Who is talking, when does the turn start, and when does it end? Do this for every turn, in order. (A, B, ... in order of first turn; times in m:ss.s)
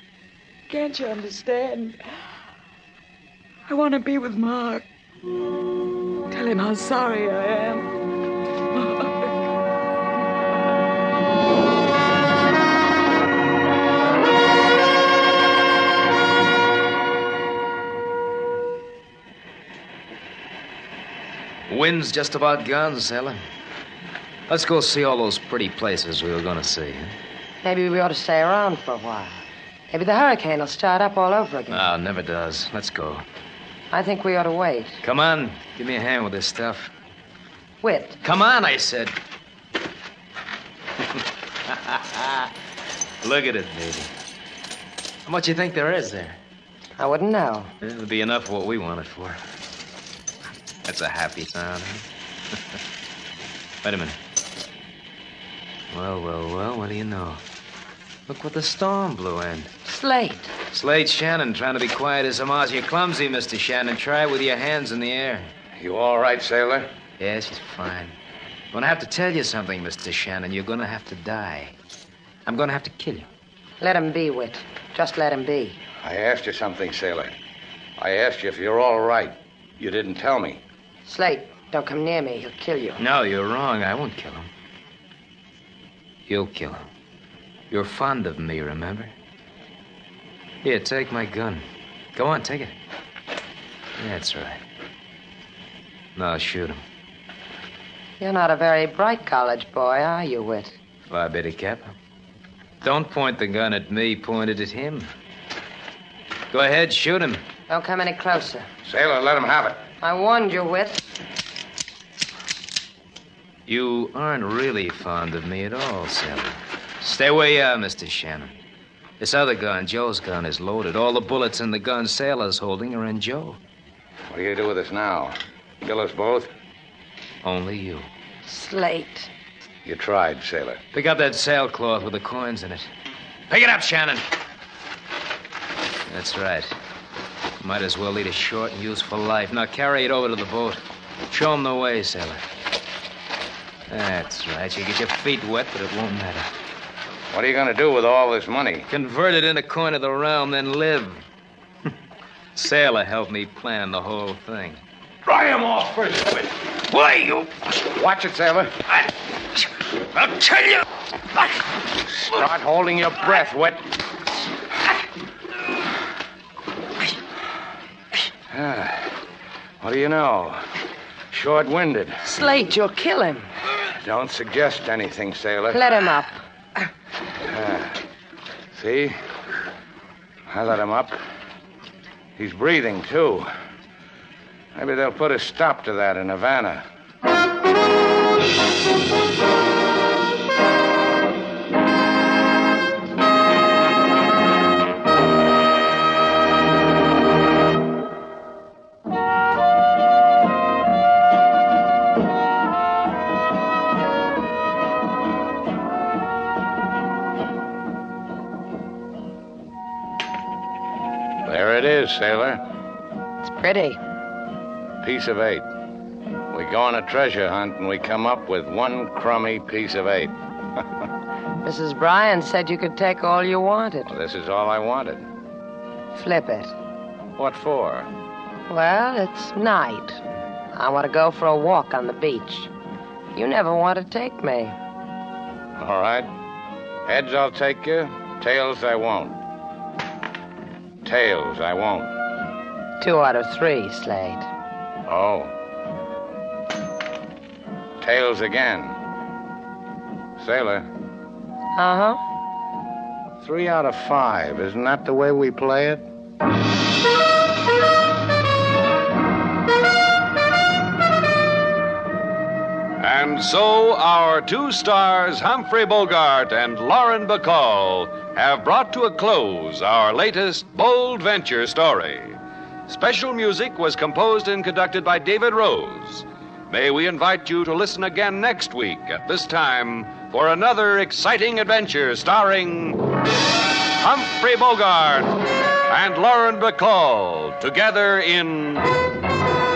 0:00.7-0:02.0 A
0:03.7-0:04.8 A
0:06.3-0:07.9 A
0:08.7-0:09.4 A
0:21.7-0:23.4 B
0:24.5-0:27.1 B
0:27.6-0:31.9 C
0:31.7-0:33.2 B
0:33.9-0:35.0 C
0:35.0-0:36.9 B
0:37.8-0:38.2 C
0:38.2-0:39.2 B
0:41.7-0:42.5 B
0:43.2-0:44.1 B
0:45.2-0:46.4 B
0:47.0-0:47.7 C
0:47.8-0:49.4 B
0:50.8-0:52.0 B
0:53.8-0:54.2 B
0:55.9-0:57.4 B
0:58.3-0:59.7 B
0:59.8-1:00.5 C
1:00.7-1:05.5 B
1:05.8-1:06.9 D
1:07.2-1:08.1 B
1:08.7-1:11.7 B
1:12.4-1:13.3 B
1:13.8-1:15.8 C
1:16.0-1:17.3 D
1:18.0-1:20.6 D
1:21.0-1:23.0 C
1:23.0-1:24.5 B
1:26.3-1:26.8 B
1:27.7-1:29.1 B
1:30.6-1:31.6 B
1:32.1-1:32.8 B
1:34.0-1:34.6 B
1:36.2-1:36.8 B
1:38.2-1:40.8 C
1:41.1-1:41.9 B
1:42.8-1:45.1 B
1:46.5-1:47.4 B
1:47.7-1:48.6 C
1:48.8-1:49.9 D
1:50.0-1:51.0 C
1:53.7-1:58.6 B
1:59.2-2:03.6 B
2:04.3-2:06.5 D
2:07.4-2:08.1 B
2:08.4-2:09.3 C
2:09.8-2:10.8 D
2:10.9-2:12.9 B
2:13.5-2:14.2 B
2:16.1-2:16.7 B
2:17.6-2:22.4 B
2:23.9-2:26.5 B
2:27.3-2:28.9 D
2:28.9-2:31.2 B
2:32.6-2:34.8 B
2:35.2-2:36.6 D
2:36.9-2:37.5 B
2:37.8-2:38.8 D
2:40.2-2:40.8 B
2:42.2-2:43.8 D
2:48.5-2:49.1 D
2:49.8-2:50.6 D
2:51.3-2:52.2 D
2:52.2-2:53.5 C
2:54.0-2:55.8 D
2:55.7-2:56.4 C
2:57.5-2:58.0 D
2:58.7-2:59.2 D
3:00.5-3:01.2 D
3:02.4-3:03.5 D
3:04.7-3:06.8 D
3:31.4-3:32.6 D
3:33.4-3:34.0 C
3:35.0-3:35.6 D
3:36.5-3:40.3 D
3:41.6-3:44.1 C
3:44.1-3:45.2 D
3:46.1-3:46.7 C
3:47.4-3:48.1 D
3:48.7-3:50.2 C
3:50.7-3:52.7 C
3:53.3-3:54.7 C
3:55.8-3:56.3 D
3:57.0-3:59.4 D
4:01.0-4:02.1 D
4:03.0-4:04.5 C
4:05.1-4:05.5 D
4:08.0-4:08.9 D
4:10.4-4:10.8 D
4:11.8-4:12.2 C
4:13.4-4:16.0 D
4:23.0-4:32.4 E
4:32.9-4:43.0 E
4:44.0-4:45.3 E
4:45.9-4:48.9 E